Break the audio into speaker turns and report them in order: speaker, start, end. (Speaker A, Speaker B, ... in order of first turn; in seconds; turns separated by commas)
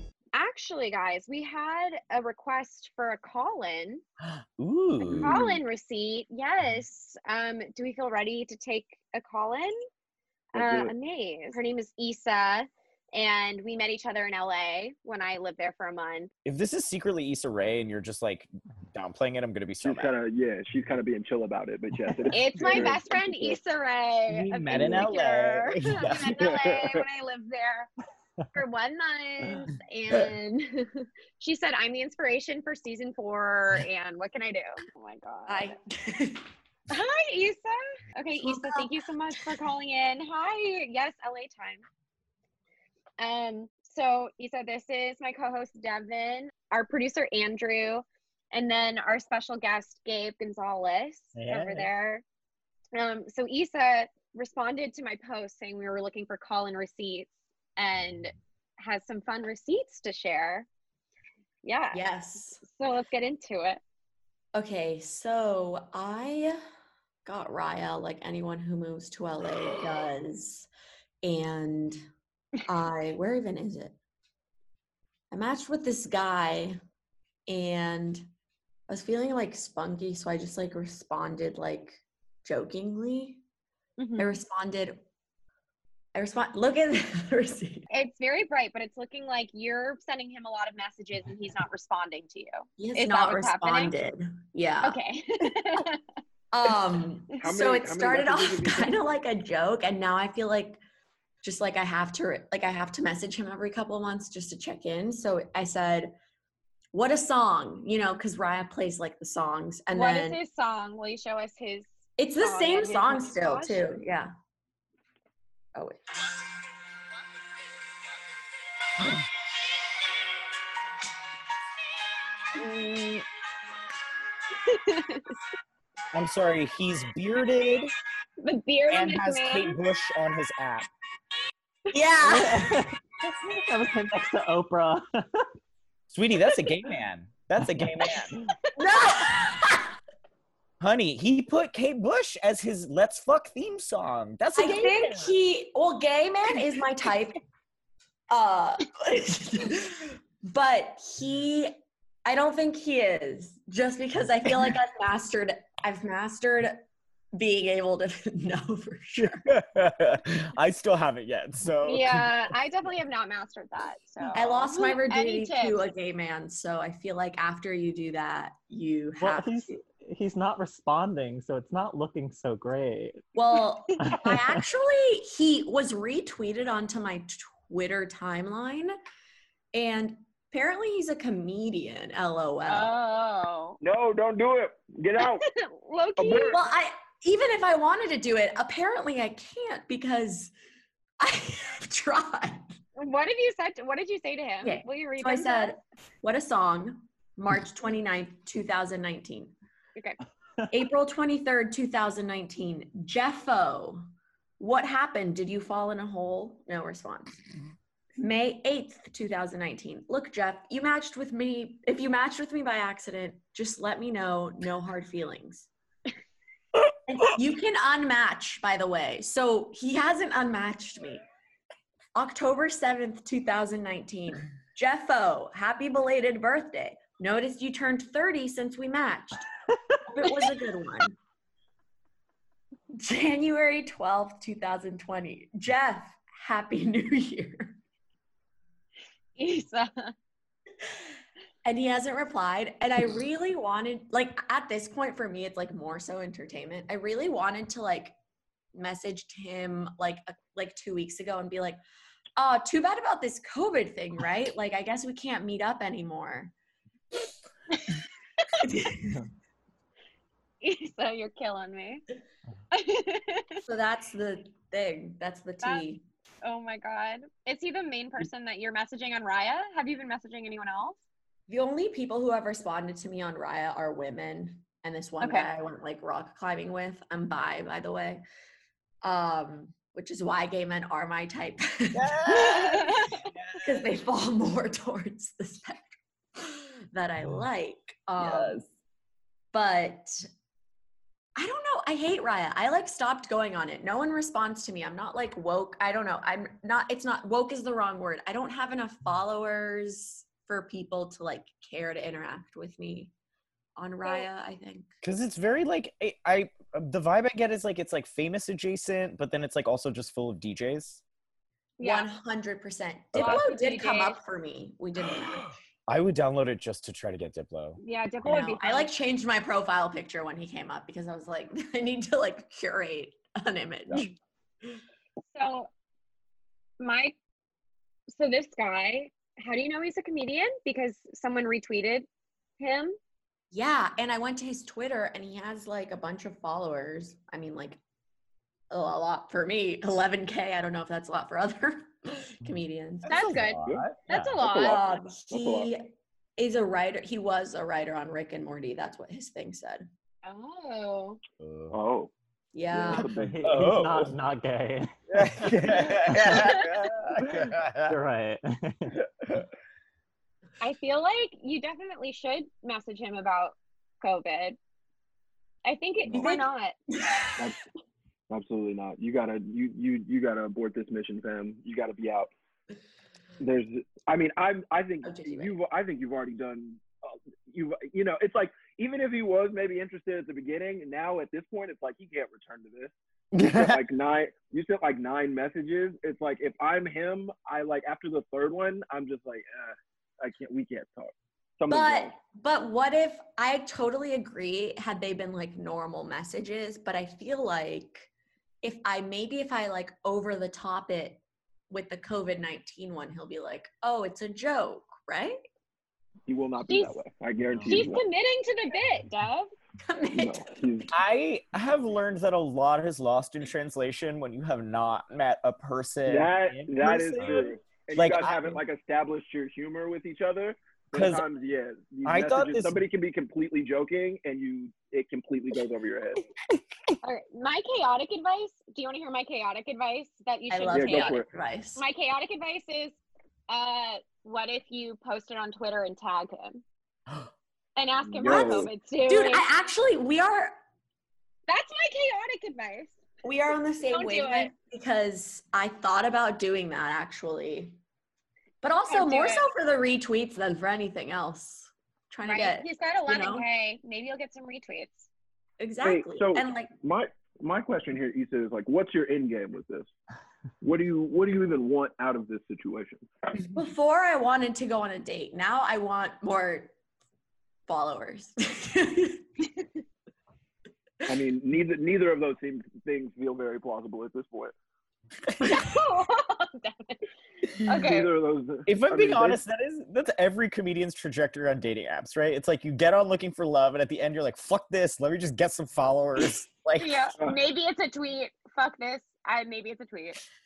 Speaker A: 0.3-4.0, Speaker B: 4.2-5.4, Speaker A: 5.0-9.8, Speaker C: 5.2-5.5, Speaker D: 10.5-10.9, Speaker A: 10.6-16.3, Speaker B: 16.4-20.1, Speaker D: 19.8-23.6, Speaker A: 22.3-27.9, Speaker B: 24.3-26.3, Speaker D: 24.7-25.0, Speaker D: 26.4-27.0, Speaker A: 28.5-35.7, Speaker C: 35.5-36.4, Speaker A: 36.9-41.8, Speaker C: 38.3-38.9, Speaker A: 43.2-52.2, Speaker E: 51.3-51.9, Speaker A: 52.9-60.7, Speaker A: 61.6-63.8, Speaker C: 61.9-62.6, Speaker C: 64.5-66.6, Speaker C: 67.2-70.7, Speaker C: 71.2-72.0, Speaker C: 72.7-74.0, Speaker C: 75.3-76.8, Speaker C: 77.5-78.2, Speaker C: 78.9-83.4, Speaker A: 84.0-84.4, Speaker C: 84.2-85.0, Speaker C: 86.1-87.8, Speaker A: 87.9-94.0, Speaker C: 92.8-95.5, Speaker A: 94.8-96.0, Speaker C: 96.5-100.8, Speaker D: 97.3-99.0, Speaker C: 101.4-106.1, Speaker C: 106.9-110.4, Speaker A: 109.9-114.0, Speaker C: 112.2-114.3, Speaker C: 115.7-116.0, Speaker A: 122.6-123.2, Speaker A: 124.7-125.3, Speaker B: 126.1-127.9, Speaker A: 128.4-129.8, Speaker B: 128.9-130.9, Speaker C: 131.9-132.8, Speaker E: 132.2-135.0, Speaker B: 136.1-138.3, Speaker C: 138.8-139.9, Speaker B: 140.8-145.3, Speaker C: 144.5-147.4, Speaker C: 148.3-151.7, Speaker C: 152.2-156.8, Speaker C: 157.3-159.4, Speaker B: 159.2-162.5, Speaker A: 161.8-165.9, Speaker C: 164.3-169.7, Speaker E: 169.2-173.2, Speaker C: 173.3-178.9, Speaker E: 174.1-174.5, Speaker C: 179.7-182.9, Speaker A: 182.7-183.8, Speaker D: 183.8-185.4, Speaker A: 185.2-186.6, Speaker D: 186.2-186.6, Speaker C: 186.5-190.5, Speaker C: 191.2-192.6, Speaker A: 193.0-195.8, Speaker C: 194.6-199.5, Speaker C: 200.7-204.0, Speaker C: 204.6-207.3, Speaker C: 208.2-215.7, Speaker C: 217.1-221.2, Speaker C: 222.1-229.5, Speaker C: 230.1-231.2, Speaker C: 233.0-237.8, Speaker A: 239.3-240.1, Speaker C: 241.6-248.2, Speaker C: 248.7-251.8, Speaker C: 252.4-256.5, Speaker C: 258.7-259.0, Speaker A: 260.6-262.0, Speaker A: 262.7-263.6, Speaker C: 263.6-266.0, Speaker A: 266.4-271.0, Speaker C: 271.5-278.2, Speaker A: 275.2-275.5, Speaker C: 279.0-282.9, Speaker B: 281.9-283.9, Speaker A: 282.3-283.2, Speaker C: 283.6-288.6, Speaker B: 288.2-288.6, Speaker C: 289.5-290.2, Speaker C: 291.4-303.1, Speaker C: 303.8-304.9, Speaker B: 305.0-311.0, Speaker A: 311.8-312.1, Speaker C: 311.8-315.6, Speaker B: 313.1-313.4, Speaker A: 313.2-314.2, Speaker B: 315.9-317.8, Speaker A: 317.8-318.9, Speaker C: 318.2-324.1, Speaker A: 325.2-325.7, Speaker A: 326.8-327.1, Speaker A: 328.1-332.1, Speaker A: 332.6-333.0, Speaker C: 333.5-337.8, Speaker C: 338.7-343.2, Speaker B: 343.0-344.4, Speaker A: 343.1-344.8, Speaker D: 343.6-345.7, Speaker C: 344.6-349.9, Speaker A: 350.2-351.2, Speaker B: 351.4-351.8, Speaker D: 351.7-352.1, Speaker C: 352.5-353.1, Speaker D: 352.7-353.5, Speaker E: 352.9-355.6, Speaker B: 353.4-354.1, Speaker B: 355.1-357.9, Speaker A: 356.3-356.6, Speaker E: 357.3-359.0, Speaker A: 360.6-364.6, Speaker A: 365.6-366.7, Speaker C: 366.1-367.3, Speaker D: 368.3-372.3, Speaker D: 373.4-392.1, Speaker C: 375.1-375.5, Speaker B: 383.4-383.8, Speaker C: 391.7-398.1, Speaker C: 398.6-405.4, Speaker D: 406.3-408.1, Speaker A: 406.6-407.0, Speaker B: 407.6-407.9, Speaker A: 407.7-409.5, Speaker C: 409.8-410.5, Speaker D: 410.1-410.9, Speaker B: 410.9-418.6, Speaker D: 416.0-426.2, Speaker B: 420.9-421.2, Speaker B: 422.0-422.8, Speaker A: 427.0-431.2, Speaker C: 430.5-431.8, Speaker D: 430.7-431.3, Speaker A: 431.7-433.0, Speaker A: 433.5-436.6, Speaker A: 437.8-439.4, Speaker D: 438.0-438.7, Speaker C: 438.2-440.6, Speaker A: 441.5-443.0, Speaker C: 443.2-447.8, Speaker A: 443.9-444.5, Speaker C: 448.6-453.5, Speaker A: 448.9-449.5, Speaker A: 452.2-455.1, Speaker C: 455.6-456.7, Speaker D: 455.8-459.9, Speaker D: 460.6-463.1, Speaker C: 463.5-466.7, Speaker C: 467.7-469.2, Speaker D: 471.1-474.5, Speaker C: 475.4-475.8, Speaker A: 475.4-477.1, Speaker A: 477.6-478.1, Speaker D: 477.6-479.4, Speaker B: 478.7-487.1, Speaker A: 486.8-490.2